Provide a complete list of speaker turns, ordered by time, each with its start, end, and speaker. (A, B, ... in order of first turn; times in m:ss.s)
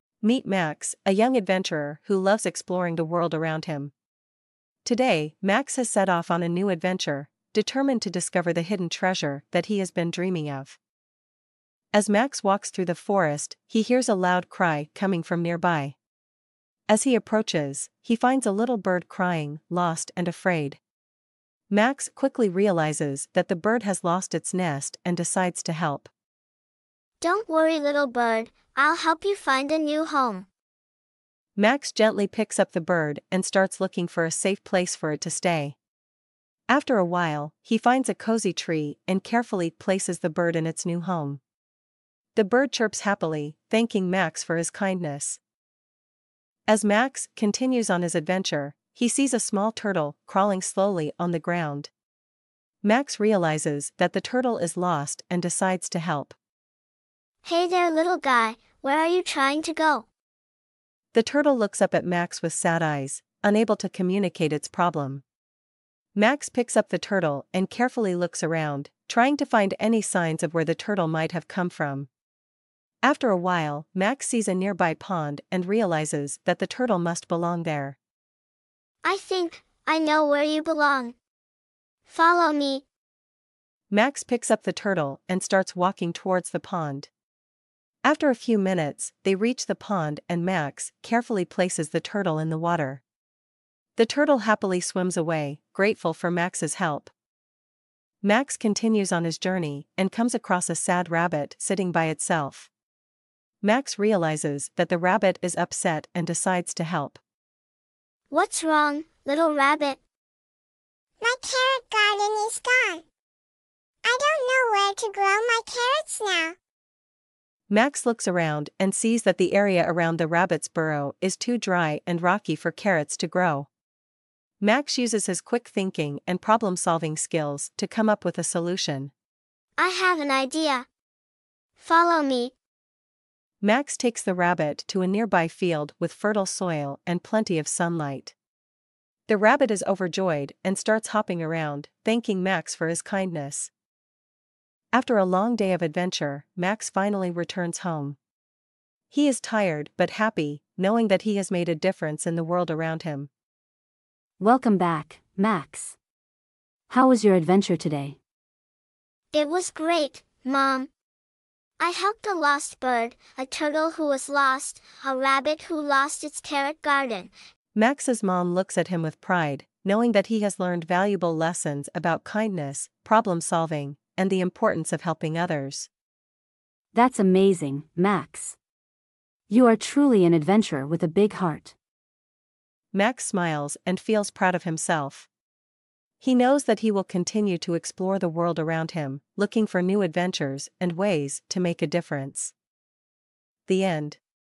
0:00.2-0:03.9 A
0:04.8-0:10.8 A
0:11.9-0:16.0 A
0:16.9-0:20.8 A
0:21.7-0:26.1 A
0:27.2-0:30.5 B
0:31.6-0:35.8 A
0:36.7-0:41.4 A
0:42.3-0:45.4 A
0:46.7-0:51.9 A
0:52.8-0:56.4 A
0:57.4-1:00.1 B
1:01.1-1:05.2 A
1:06.1-1:12.1 A
1:13.0-1:18.0 A
1:19.0-1:21.2 B
1:22.0-1:22.8 B
1:23.9-1:27.1 A
1:28.0-1:33.0 A
1:34.0-1:37.1 A
1:38.2-1:42.7 A
1:43.6-1:47.2 A
1:48.3-1:50.0 B
1:51.2-1:53.0 C
1:54.0-1:56.5 C
1:57.7-2:03.7 A
2:04.6-2:09.1 A
2:09.8-2:10.8 B
2:11.8-2:12.5 B
2:13.6-2:18.3 A
2:19.3-2:23.7 A
2:24.9-2:28.2 A
2:29.1-2:33.3 A
2:34.4-2:36.0 D
2:36.9-2:38.2 D
2:39.3-2:40.9 B
2:41.8-2:47.3 B
2:47.7-2:55.9 A
2:56.9-2:58.6 D
2:59.5-3:01.7 D
3:02.9-3:05.3 A
3:06.2-3:12.5 A
3:13.7-3:14.2 A